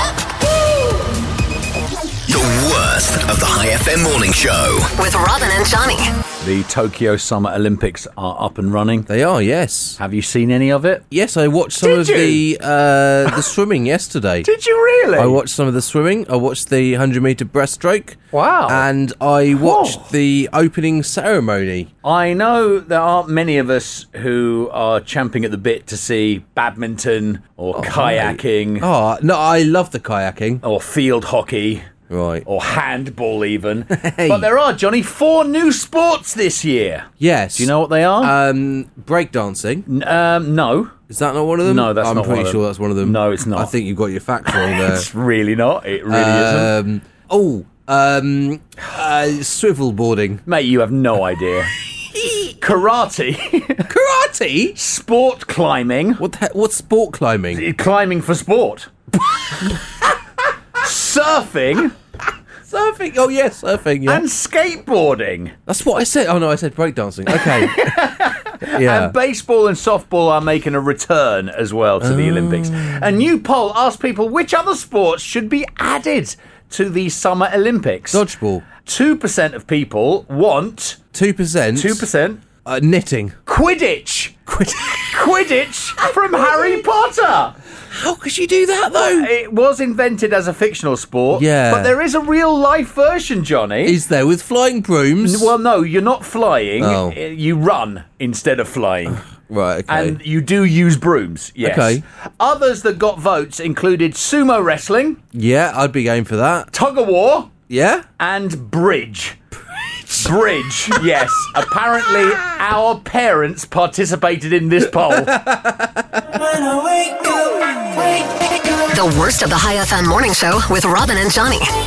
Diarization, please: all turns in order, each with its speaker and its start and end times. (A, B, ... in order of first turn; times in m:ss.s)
0:02.3-0:04.9 A
0:05.0-0:06.1 B
0:06.4-0:09.1 C
0:09.1-0:10.0 D
0:10.0-0:11.0 C
0:11.1-0:14.5 D
0:11.8-0:12.4 C
0:14.4-0:15.4 C
0:15.2-0:21.9 D
0:18.3-0:18.8 C
0:19.5-0:20.1 C
0:22.0-0:28.9 C
0:27.7-0:30.6 D
0:30.6-0:31.9 C
0:32.1-0:32.4 D
0:32.4-0:38.3 C
0:33.9-0:34.5 D
0:37.2-0:39.9 D
0:39.9-0:41.0 C
0:41.1-0:45.1 D
0:41.6-0:43.7 C
0:44.5-0:46.7 C
0:46.1-0:50.4 D
0:50.4-0:51.7 C
0:52.1-0:52.5 D
0:52.6-0:53.9 C
0:53.9-0:54.8 D
0:54.8-0:56.2 C
0:56.2-0:57.6 D
0:57.5-0:58.9 C
1:00.8-1:01.9 C
1:02.7-1:04.2 D
1:04.0-1:05.6 C
1:05.7-1:08.0 D
1:07.3-1:18.2 C
1:08.6-1:09.1 D
1:12.0-1:13.1 D
1:18.1-1:18.6 D
1:18.8-1:21.0 C
1:21.1-1:22.1 D
1:21.7-1:22.4 C
1:22.6-1:23.4 D
1:23.4-1:27.5 C
1:24.5-1:25.1 D
1:26.3-1:26.8 D
1:27.9-1:29.3 D
1:28.9-1:34.0 C
1:31.3-1:32.0 D
1:33.8-1:35.5 D
1:35.2-1:39.2 C
1:36.8-1:37.2 D
1:39.1-1:40.2 D
1:39.9-1:45.2 C
1:41.6-1:42.0 D
1:45.3-1:46.7 D
1:46.7-1:47.5 C
1:47.7-1:48.0 D
1:48.2-1:49.4 C
1:49.8-1:50.2 D
1:50.2-1:55.4 C
1:55.0-1:57.7 D
1:58.9-2:01.7 B